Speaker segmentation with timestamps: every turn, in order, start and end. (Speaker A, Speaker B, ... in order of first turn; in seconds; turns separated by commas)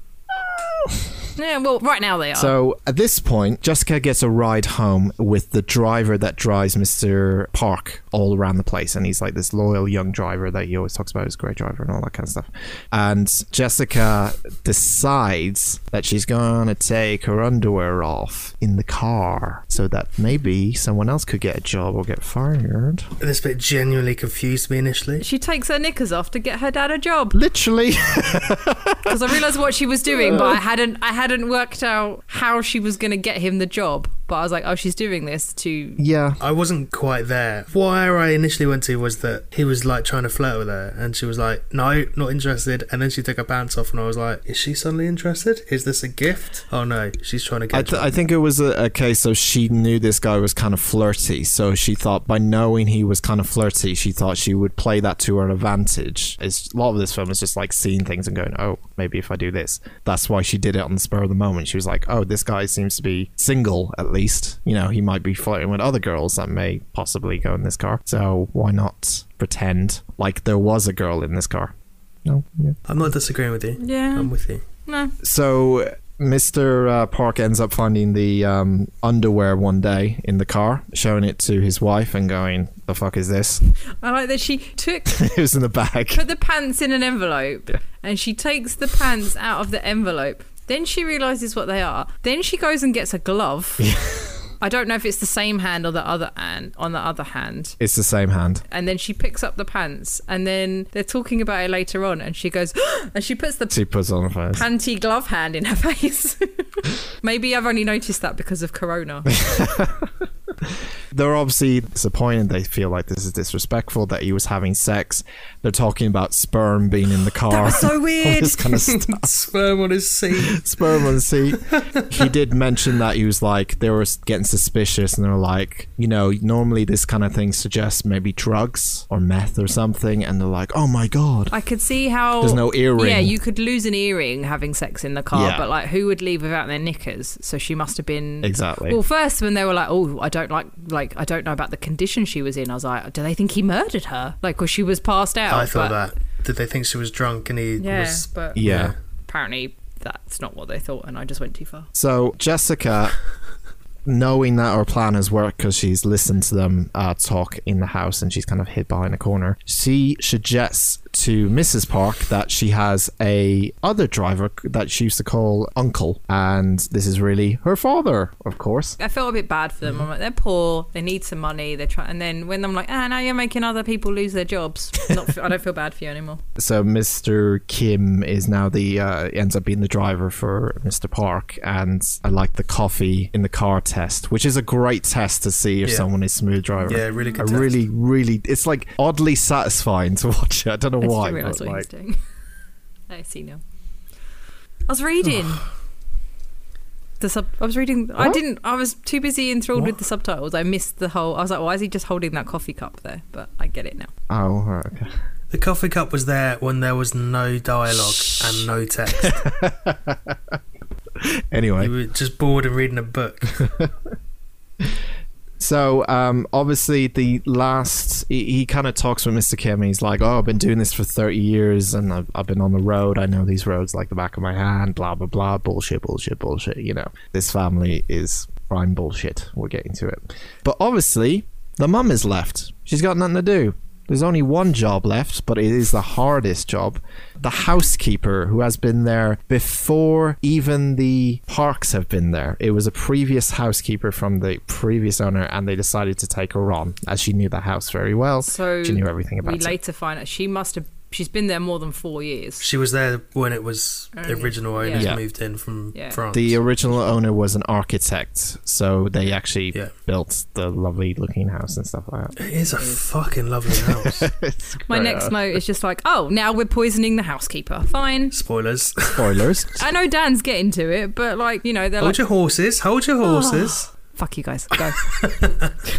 Speaker A: 0.3-1.2, Speaker B: 1.4-2.5, Speaker A: 2.4-23.1, Speaker C: 23.2-25.2, Speaker B: 25.2-27.4, Speaker A: 27.3-29.4, Speaker B: 29.1-36.0, Speaker A: 30.2-30.6, Speaker A: 36.0-36.4, Speaker C: 36.4-48.1, Speaker A: 47.7-71.7, Speaker A: 72.2-72.8, Speaker C: 72.9-74.6, Speaker B: 73.8-74.3, Speaker B: 74.8-75.1, Speaker A: 75.2-83.6, Speaker B: 84.0-85.3, Speaker A: 85.1-86.2, Speaker B: 86.1-93.9, Speaker A: 93.8-94.4, Speaker B: 94.6-97.8, Speaker A: 97.8-98.6, Speaker B: 98.7-103.8, Speaker A: 103.7-104.7, Speaker B: 104.5-109.4, Speaker A: 109.3-119.2, Speaker B: 117.5-118.9, Speaker C: 118.8-122.2, Speaker A: 120.4-131.5, Speaker B: 131.5-146.0, Speaker A: 132.4-133.3, Speaker A: 135.3-135.7, Speaker A: 138.4-139.0, Speaker C: 145.5-148.9, Speaker B: 147.8-148.6, Speaker A: 148.6-148.9, Speaker B: 149.3-151.9, Speaker A: 151.9-153.2, Speaker A: 154.1-169.0, Speaker B: 169.0-176.4, Speaker A: 176.6-191.9, Speaker C: 186.9-187.7, Speaker B: 187.1-187.6, Speaker B: 191.0-192.2, Speaker B: 193.1-193.6, Speaker B: 194.9-195.6, Speaker B: 197.2-204.1, Speaker A: 204.3-205.1, Speaker C: 205.5-209.4, Speaker A: 209.1-210.6, Speaker A: 211.2-211.9, Speaker C: 211.8-213.7, Speaker A: 213.6-213.9, Speaker A: 215.6-249.8, Speaker B: 248.4-252.7, Speaker C: 252.6-256.6, Speaker B: 254.1-255.1, Speaker A: 254.9-255.2, Speaker B: 255.9-256.2, Speaker A: 256.3-262.4, Speaker C: 262.4-264.3, Speaker A: 263.7-265.4, Speaker B: 264.9-268.3, Speaker C: 268.3-269.5, Speaker A: 269.2-269.9, Speaker B: 269.7-272.2, Speaker C: 272.0-273.9, Speaker B: 273.2-275.3, Speaker C: 274.9-275.7